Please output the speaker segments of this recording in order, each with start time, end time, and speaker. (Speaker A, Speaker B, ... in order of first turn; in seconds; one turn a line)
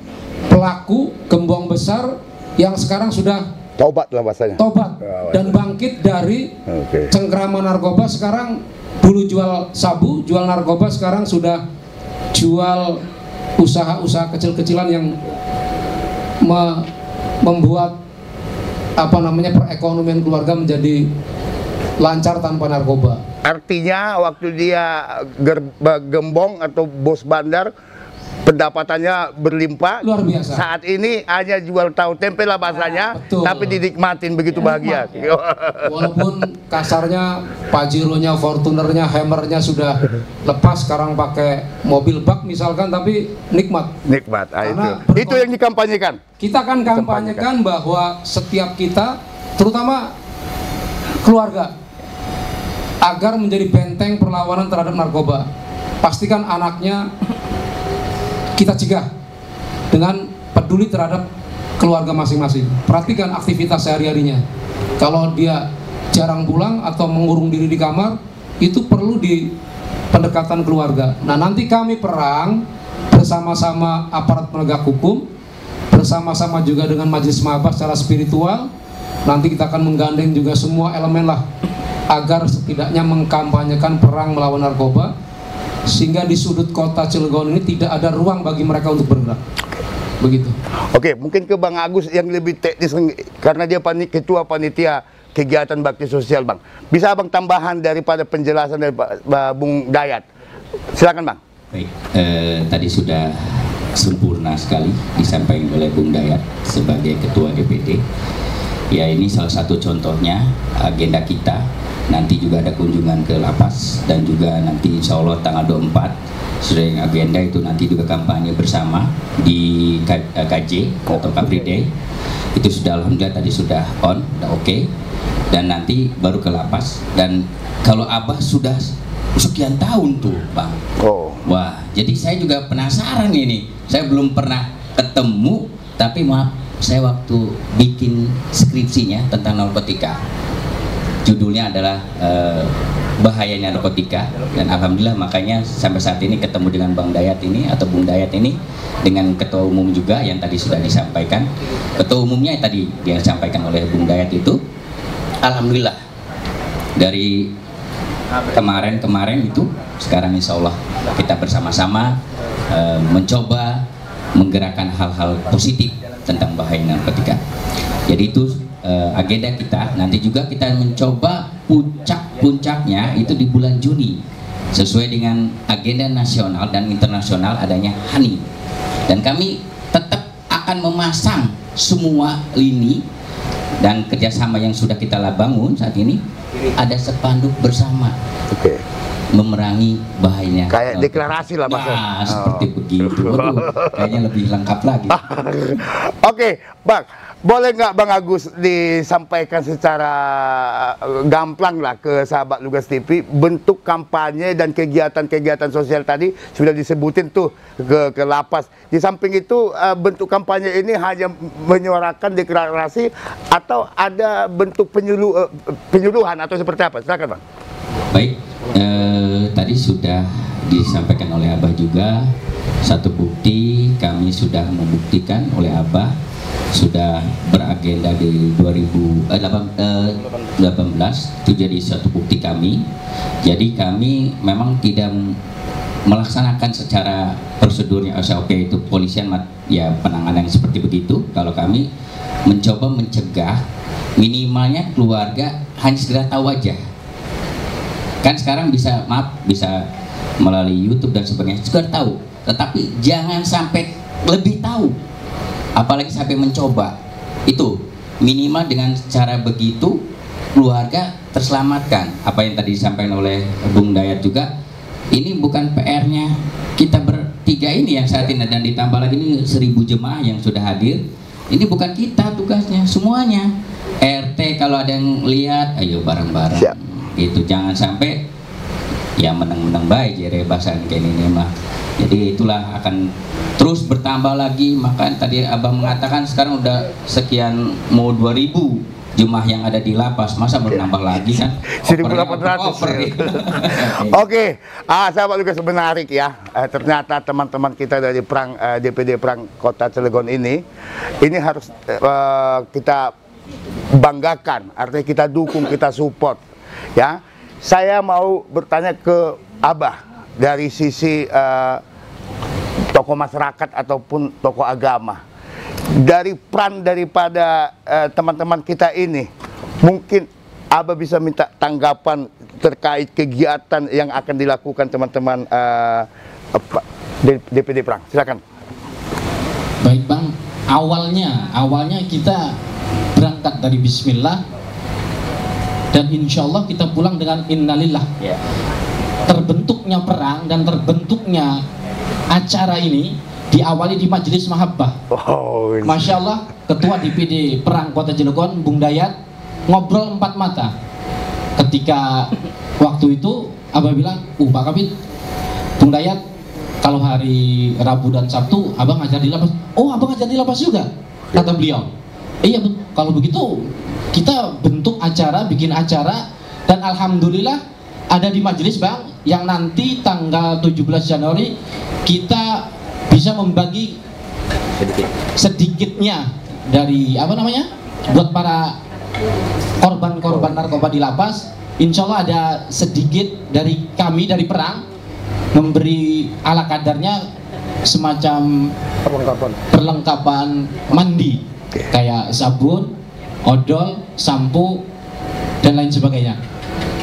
Speaker A: 0.5-3.5
Speaker B: 3.8-5.6
Speaker A: 4.6-6.5
Speaker B: 6.7-7.1
Speaker A: 7.1-11.6
Speaker A: 12.3-13.0
Speaker A: 13.6-15.2
Speaker A: 16.4-16.9
Speaker A: 17.4-18.0
Speaker A: 19.0-21.1
Speaker A: 22.0-23.2
Speaker B: 23.4-27.7
Speaker B: 28.4-36.2
Speaker A: 30.0-30.6
Speaker A: 33.1-33.8
Speaker A: 34.7-35.0
Speaker A: 35.8-43.9
Speaker B: 44.0-46.2
Speaker A: 44.6-45.4
Speaker A: 46.4-50.1
Speaker B: 46.9-47.5
Speaker A: 51.2-51.7
Speaker A: 53.0-55.5
Speaker A: 56.0-57.1
Speaker A: 58.6-59.1
Speaker A: 59.9-61.2
Speaker A: 61.8-64.4
Speaker A: 65.0-69.5
Speaker A: 70.1-75.2
Speaker A: 75.9-78.7
Speaker A: 79.2-81.4
Speaker A: 82.1-85.1
Speaker A: 85.9-89.4
Speaker A: 90.2-90.5
Speaker B: 90.9-100.2
Speaker B: 100.9-101.4
Speaker C: 101.7-108.0
Speaker C: 108.9-121.9
Speaker B: 121.1-121.5
Speaker C: 122.5-124.9
Speaker C: 125.5-130.8
Speaker B: 131.0-131.4
Speaker C: 131.4-140.2
Speaker C: 141.2-154.6
Speaker C: 155.4-156.0
Speaker C: 157.0-157.5
Speaker C: 158.5-162.2
Speaker C: 162.7-167.4
Speaker C: 168.1-174.2
Speaker C: 174.7-178.4
Speaker C: 179.1-183.0
Speaker C: 183.8-186.2
Speaker C: 186.8-188.1
Speaker B: 188.5-188.8
Speaker C: 189.3-195.2
Speaker B: 190.7-194.1
Speaker B: 195.1-217.4
Speaker C: 218.1-222.3
Speaker C: 222.8-226.1
Speaker C: 226.7-232.8
Speaker C: 233.4-235.3
Speaker C: 236.1-241.9
Speaker C: 242.4-243.6
Speaker C: 244.2-246.8
Speaker C: 248.2-249.9
Speaker C: 250.4-254.9
Speaker C: 255.8-256.9
Speaker C: 257.5-260.0
Speaker C: 260.6-264.5
Speaker C: 265.1-278.2
Speaker C: 279.2-294.2
Speaker B: 291.8-300.6
Speaker B: 301.2-303.1
Speaker B: 303.9-306.4
Speaker B: 306.9-311.8
Speaker B: 312.9-315.2
Speaker B: 316.0-319.3
Speaker B: 319.8-328.4
Speaker D: 329.8-332.5
Speaker D: 333.1-334.4
Speaker D: 335.9-338.1
Speaker D: 339.2-341.6
Speaker D: 342.3-345.0
Speaker B: 345.1-346.1
Speaker D: 345.8-349.1
Speaker D: 349.7-350.7
Speaker D: 351.6-354.9
Speaker D: 355.8-356.2
Speaker D: 356.8-361.9
Speaker D: 362.4-367.6
Speaker D: 368.1-371.5
Speaker D: 372.1-374.0
Speaker D: 375.4-378.8
Speaker D: 379.8-384.9
Speaker D: 385.5-387.2
Speaker D: 387.8-388.7
Speaker A: 389.1-389.5
Speaker D: 389.7-392.9
Speaker D: 393.4-394.8
Speaker D: 395.6-396.4